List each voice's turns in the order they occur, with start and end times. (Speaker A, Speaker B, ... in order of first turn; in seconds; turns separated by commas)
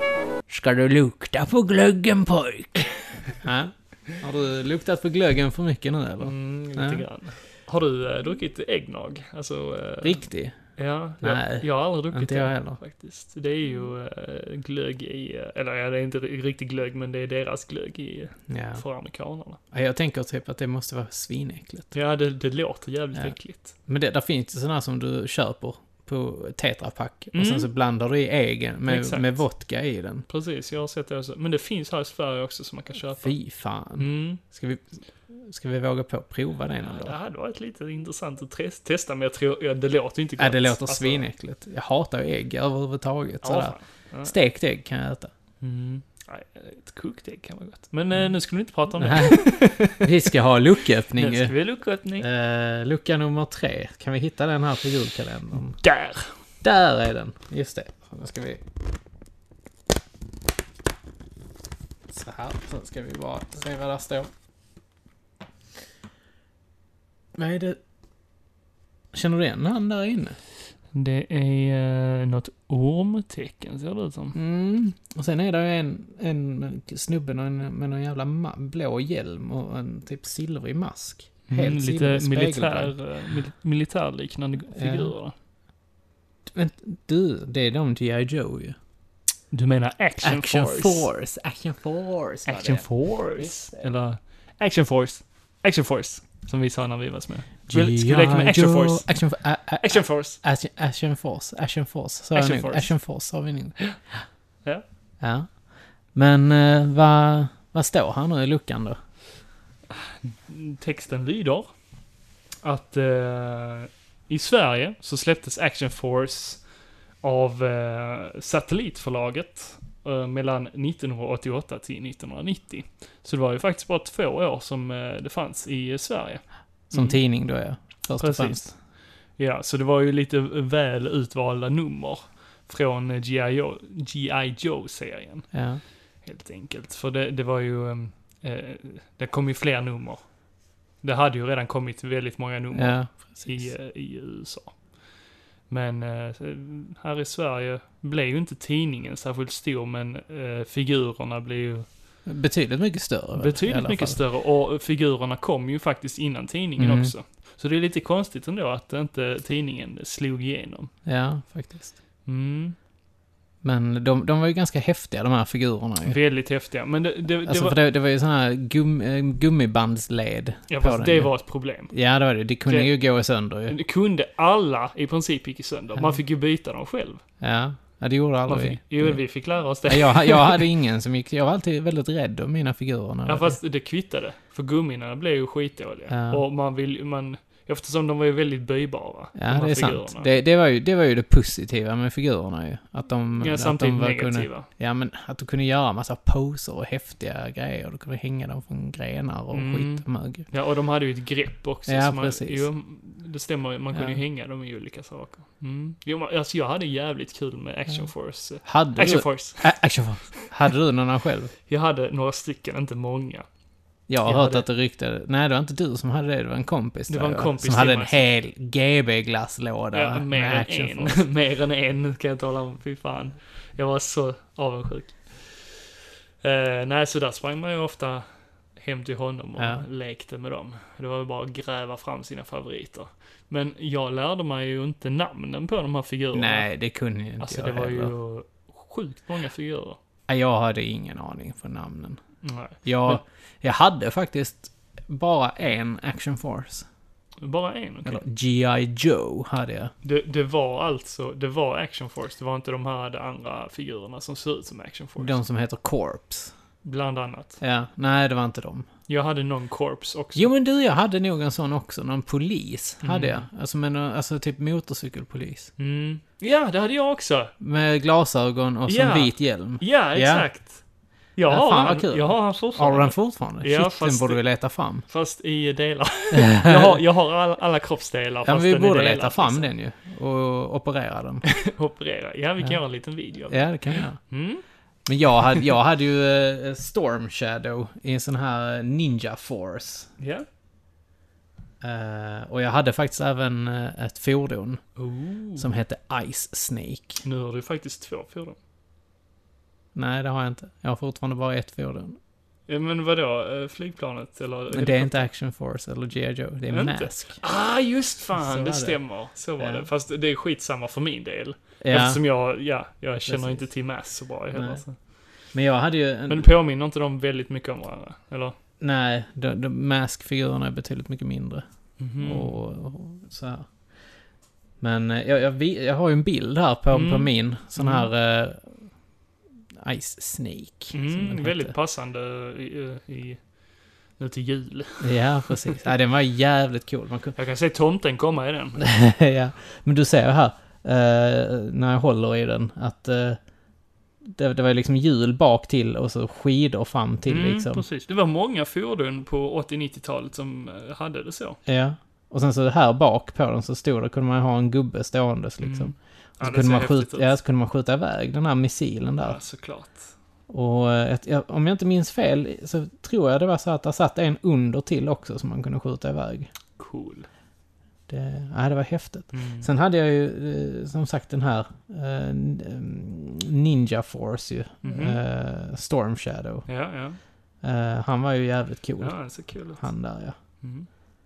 Speaker A: 0.5-7.0, Speaker B: 6.2-10.2, Speaker A: 10.0-10.6, Speaker B: 10.8-19.6, Speaker A: 11.2-12.8, Speaker A: 18.5-18.8, Speaker A: 19.7-21.9, Speaker B: 21.9-23.7, Speaker A: 23.1-30.3, Speaker B: 27.3-27.7, Speaker B: 28.8-29.4, Speaker B: 30.3-33.4, Speaker A: 33.1-37.2, Speaker B: 34.0-34.4, Speaker B: 36.8-41.3, Speaker A: 40.4-45.3, Speaker B: 43.4-44.3, Speaker B: 45.6-50.0, Speaker A: 49.0-51.5, Speaker B: 51.1-52.3, Speaker A: 52.2-55.8, Speaker B: 55.8-56.3, Speaker A: 56.6-58.6, Speaker A: 62.1-64.3, Speaker A: 67.3-67.8, Speaker A: 69.1-70.4, Speaker B: 70.9-74.3, Speaker A: 74.3-83.0, Speaker B: 81.5-85.3, Speaker A: 84.7-85.1, Speaker A: 86.5-88.8, Speaker B: 89.5-91.1, Speaker A: 90.2-93.5, Speaker B: 92.5-99.2, Speaker A: 97.7-103.8, Speaker B: 99.8-100.4, Speaker B: 102.3-102.9, Speaker A: 105.2-105.6, Speaker A: 106.1-109.0, Speaker B: 110.0-111.7, Speaker B: 112.6-116.6, Speaker B: 117.2-127.2, Speaker A: 126.9-128.7, Speaker B: 128.2-128.7, Speaker B: 129.3-135.5, Speaker A: 135.5-135.8, Speaker B: 136.2-140.3, Speaker B: 141.0-144.9, Speaker A: 142.7-143.7, Speaker B: 145.7-151.9, Speaker A: 152.2-154.2, Speaker B: 153.4-160.9, Speaker A: 156.8-157.1, Speaker A: 161.0-162.0, Speaker B: 162.2-162.8, Speaker A: 163.6-166.2, Speaker B: 166.0-167.8, Speaker A: 167.4-173.8, Speaker B: 170.7-171.9, Speaker B: 172.7-172.9, Speaker B: 173.7-177.2, Speaker A: 175.9-176.2, Speaker A: 177.4-183.6, Speaker B: 178.5-180.7, Speaker B: 183.2-190.3, Speaker A: 186.1-186.4, Speaker A: 189.3-200.5, Speaker B: 193.4-194.7, Speaker B: 199.5-209.7, Speaker A: 201.9-202.7, Speaker A: 203.9-204.2, Speaker A: 208.6-211.5, Speaker B: 211.7-213.4, Speaker A: 214.1-221.2, Speaker B: 214.2-214.7, Speaker B: 217.1-218.2, Speaker B: 219.9-225.8, Speaker B: 226.4-236.7, Speaker A: 229.6-229.8, Speaker A: 236.3-238.1, Speaker B: 237.4-240.0, Speaker A: 240.3-242.2, Speaker B: 242.4-243.2, Speaker A: 242.8-246.8, Speaker B: 247.4-248.2, Speaker A: 248.0-249.9, Speaker B: 250.0-255.4, Speaker A: 255.2-256.5, Speaker B: 256.8-257.6, Speaker A: 257.6-258.9, Speaker B: 259.1-260.5, Speaker A: 260.4-265.7, Speaker B: 263.0-263.4, Speaker B: 265.8-267.5, Speaker A: 267.6-270.5, Speaker B: 268.9-270.8, Speaker B: 271.4-274.5, Speaker A: 271.5-275.0, Speaker B: 275.1-279.7, Speaker A: 276.3-277.0, Speaker A: 278.4-281.5, Speaker B: 281.6-284.6, Speaker A: 283.4-284.2, Speaker A: 285.1-290.1, Speaker B: 290.2-290.4, Speaker A: 291.8-294.8, Speaker B: 295.0-295.7, Speaker A: 295.6-297.2, Speaker B: 297.2-298.6, Speaker A: 299.9-302.2, Speaker B: 302.7-305.3, Speaker A: 304.7-307.4, Speaker B: 306.7-314.9, Speaker A: 308.3-309.0, Speaker A: 309.6-309.9, Speaker A: 311.8-312.2, Speaker A: 313.2-313.6, Speaker A: 314.5-314.8, Speaker A: 315.5-316.5, Speaker B: 316.3-318.6, Speaker A: 318.8-321.6, Speaker B: 322.0-322.5, Speaker A: 322.2-323.6, Speaker A: 324.8-328.9, Speaker B: 326.9-328.1, Speaker A: 329.8-331.7, Speaker B: 330.9-333.5, Speaker B: 334.2-335.7, Speaker A: 335.0-337.3, Speaker B: 337.4-338.8, Speaker A: 338.8-343.4, Speaker A: 344.2-347.8, Speaker B: 347.2-351.6, Speaker A: 351.7-359.4, Speaker B: 355.6-357.3, Speaker B: 359.2-360.1, Speaker A: 360.5-366.5, Speaker B: 366.8-367.3, Speaker A: 368.1-376.7, Speaker B: 369.3-369.7, Speaker B: 374.8-375.2, Speaker B: 376.7-377.2, Speaker A: 377.6-380.3, Speaker B: 379.0-379.9, Speaker B: 380.6-380.9